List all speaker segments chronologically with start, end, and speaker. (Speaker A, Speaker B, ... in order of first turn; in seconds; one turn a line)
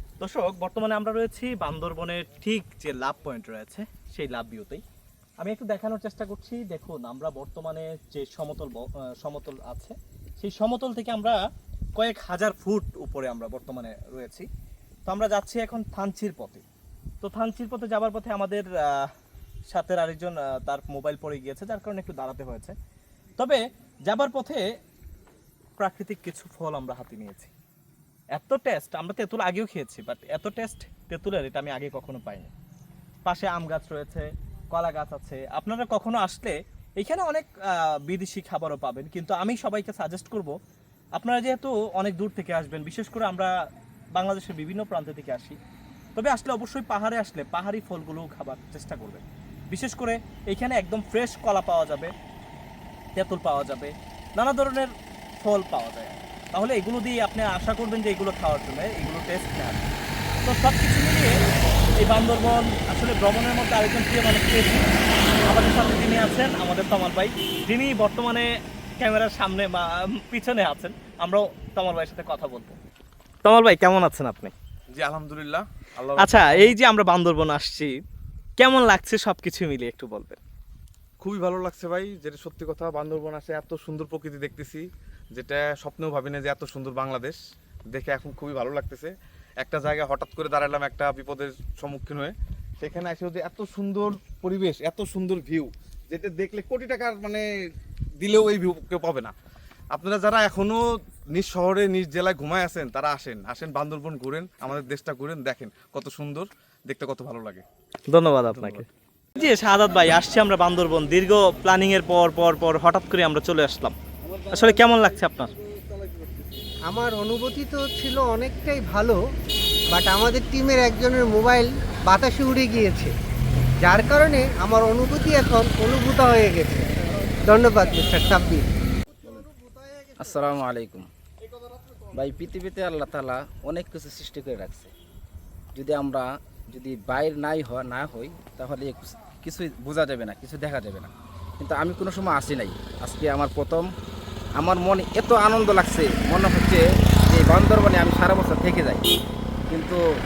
Speaker A: 0.2-4.8
Speaker A: 5.4-11.4
Speaker A: 11.9-14.5
Speaker A: 15.1-16.6
Speaker A: 17.2-19.1
Speaker A: 19.7-22.7
Speaker A: 23.4-24.6
Speaker A: 25.8-27.5
Speaker A: 28.3-32.5
Speaker A: 33.2-40.5
Speaker A: 41.2-43.5
Speaker A: 44.1-45.6
Speaker A: 46.1-52.1
Speaker A: 53.1-54.9
Speaker A: 55.4-59.9
Speaker A: 60.4-61.3
Speaker A: 62.0-64.8
Speaker A: 65.5-68.5
Speaker A: 69.0-72.8
Speaker A: 73.4-74.5
Speaker B: 74.9-76.7
Speaker A: 76.2-77.9
Speaker A: 78.6-80.4
Speaker B: 81.2-87.4
Speaker B: 87.9-97.5
Speaker B: 98.2-99.3
Speaker B: 99.9-107.6
Speaker A: 108.1-114.0
Speaker B: 108.6-108.8
Speaker A: 114.5-115.5
Speaker B: 116.0-116.3
Speaker C: 116.9-119.2
Speaker C: 119.9-123.1
Speaker C: 123.8-128.7
Speaker D: 130.1-131.1
Speaker D: 132.1-134.9
Speaker D: 135.7-143.9
Speaker D: 144.6-149.1
Speaker D: 149.7-150.0